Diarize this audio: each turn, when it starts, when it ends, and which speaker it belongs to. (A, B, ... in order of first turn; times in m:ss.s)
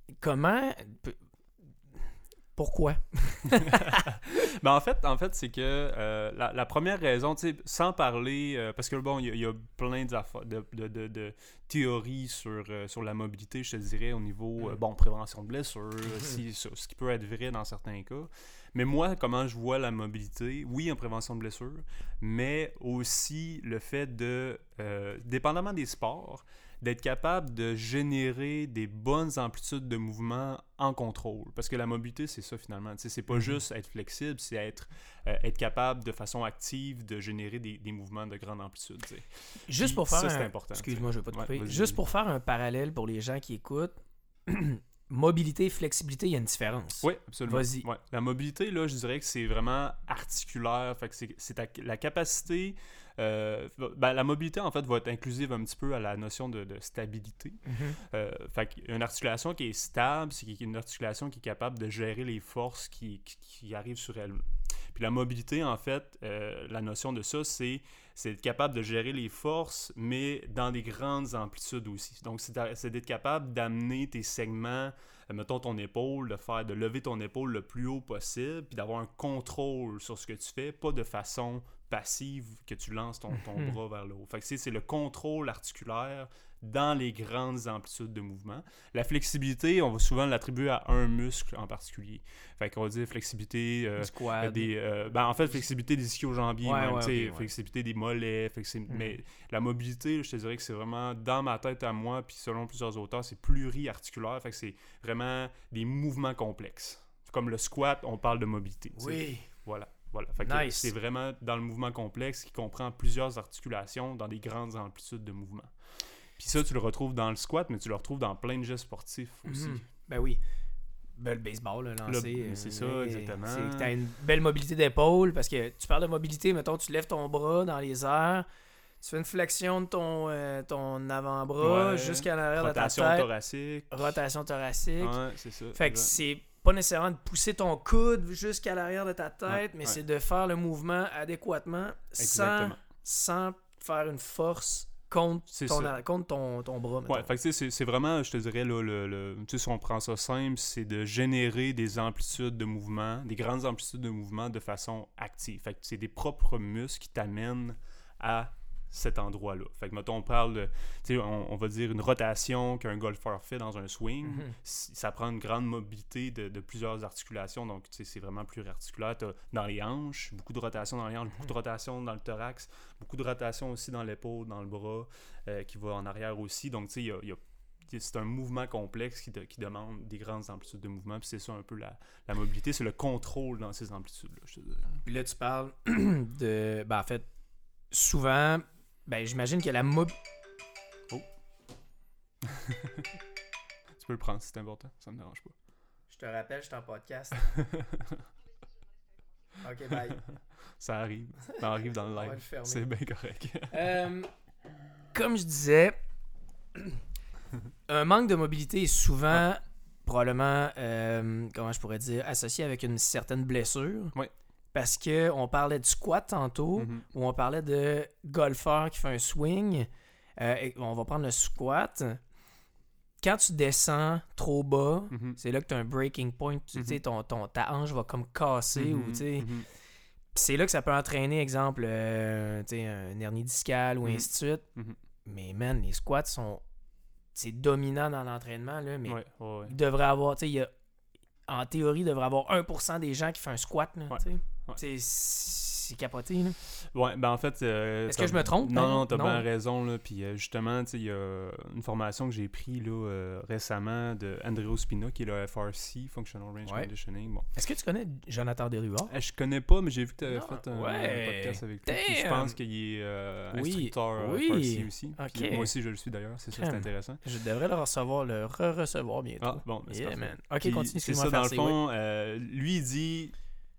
0:00.2-0:01.2 A
0:02.0-0:04.1 A
0:03.6-0:42.0 B
0:33.3-0:33.6 A
0:39.7-0:47.9 A
0:47.0-1:59.8 B
0:57.7-0:58.0 A
1:34.0-1:34.7 A
1:36.6-1:37.5 A
1:49.0-1:49.5 A
1:50.4-1:50.9 A
1:59.5-2:00.4 A
2:01.2-2:08.5 A
2:02.0-2:03.9 B
2:09.0-2:13.3 A
2:11.6-2:14.2 B
2:13.9-2:15.2 A
2:15.0-2:16.2 B
2:15.8-2:27.3 A
2:19.5-2:20.0 B
2:22.2-2:22.8 B
2:25.5-2:25.9 B
2:27.1-3:05.0 B
2:44.3-2:44.6 A
3:05.0-3:07.3 A
3:07.9-3:10.1 A
3:12.5-3:13.0 B
3:14.0-3:15.6 B
3:16.1-3:17.4 A
3:17.4-3:18.2 B
3:19.6-3:20.2 A
3:20.1-3:23.9 B
3:22.1-3:22.9 A
3:23.7-3:24.3 A
3:25.1-3:26.0 A
3:27.9-3:34.2 A
3:34.7-3:42.2 A
3:36.8-3:37.0 B
3:43.2-3:49.5 A
3:45.1-3:45.4 B
3:46.8-3:47.0 B
3:48.8-3:49.7 B
3:50.4-3:54.6 A
3:54.0-3:55.0 B
3:55.3-3:56.6 A
3:57.4-4:00.7 A
3:59.1-3:59.8 B
4:01.5-4:06.6 A
4:04.1-4:04.8 B
4:06.8-4:17.5 B
4:08.1-4:09.4 A
4:17.5-4:19.1 A
4:19.1-4:27.2 B
4:20.3-4:22.6 A
4:23.5-4:25.7 A
4:26.6-4:31.8 A
4:29.4-4:33.4 B